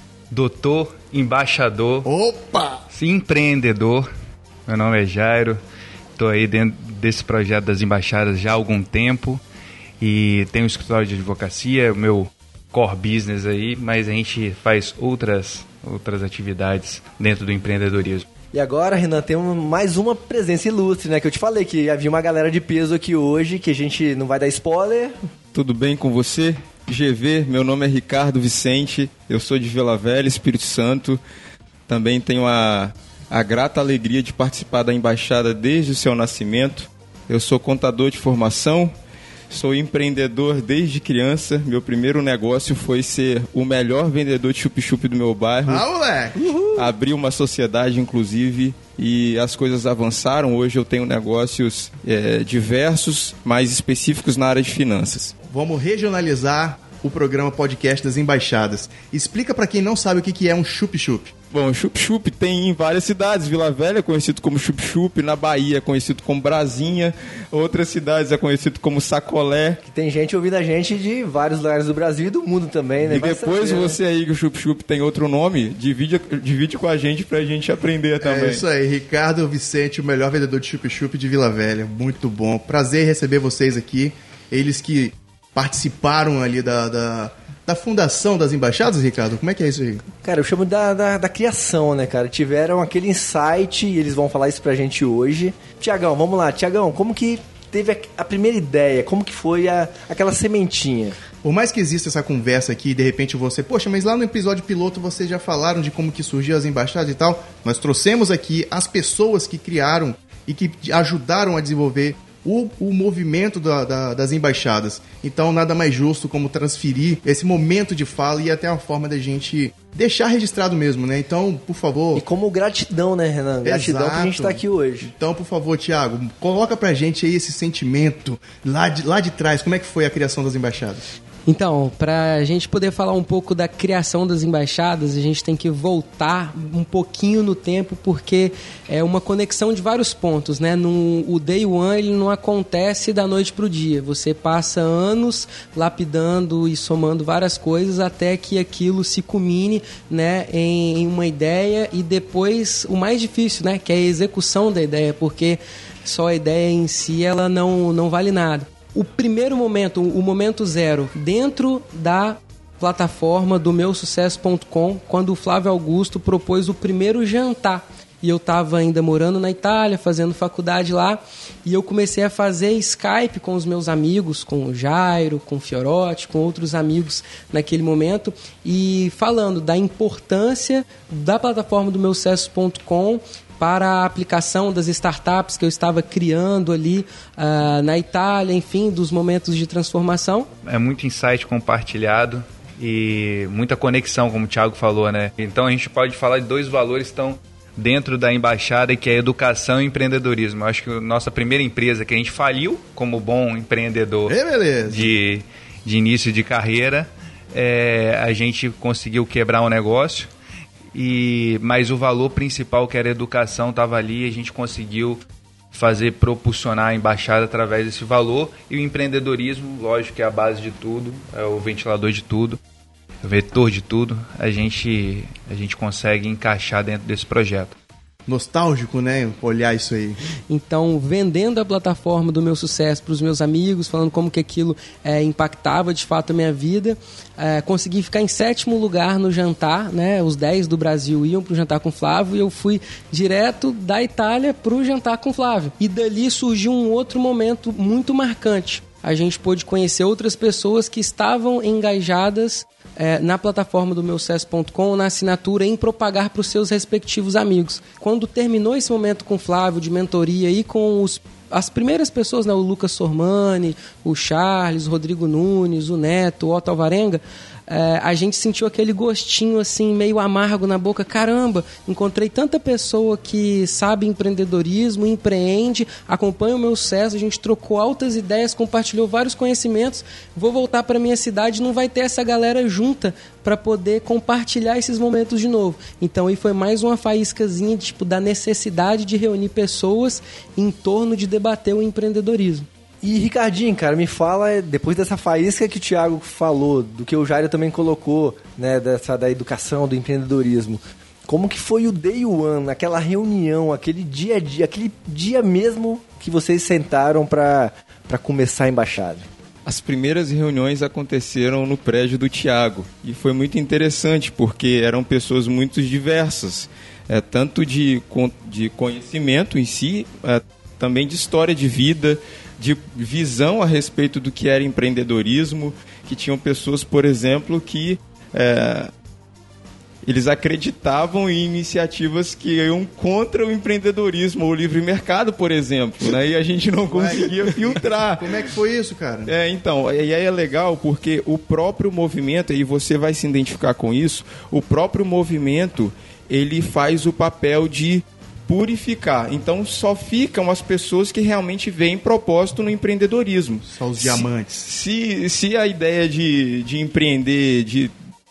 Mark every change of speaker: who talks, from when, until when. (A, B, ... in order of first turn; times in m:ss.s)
0:00.3-0:02.1 A
0:02.0-0:02.8 B
0:02.9-0:04.1 A
0:04.7-0:05.6 A
0:06.2-0:09.4 A
0:10.0-0:18.3 A
0:18.5-0:25.2 C
0:25.5-0:31.2 D
0:31.9-0:38.9 D
0:39.5-0:45.8 D
0:45.7-0:46.5 B
0:46.4-0:46.9 C
0:46.7-0:55.1 D
0:55.1-1:01.3 B
1:01.5-1:09.8 D
1:09.8-1:14.0 C
1:13.0-1:18.6 D
1:18.2-1:30.0 B
1:30.1-1:41.2 C
1:41.4-2:02.2 B
2:02.1-2:05.1 C
2:03.6-2:11.0 B
2:11.5-3:10.5 E
3:10.6-3:24.4 A
3:24.2-3:25.1 B
3:24.9-3:30.3 A
3:30.9-3:35.2 A
3:35.7-3:42.6 A
3:43.2-3:47.7 A
3:48.3-3:50.2 B
3:50.5-4:52.7 E
4:53.0-5:09.3 C
5:09.6-5:28.9 D
5:30.0-5:38.5 D
5:36.8-5:39.3 B
5:39.2-5:57.9 D
5:53.7-5:54.7 B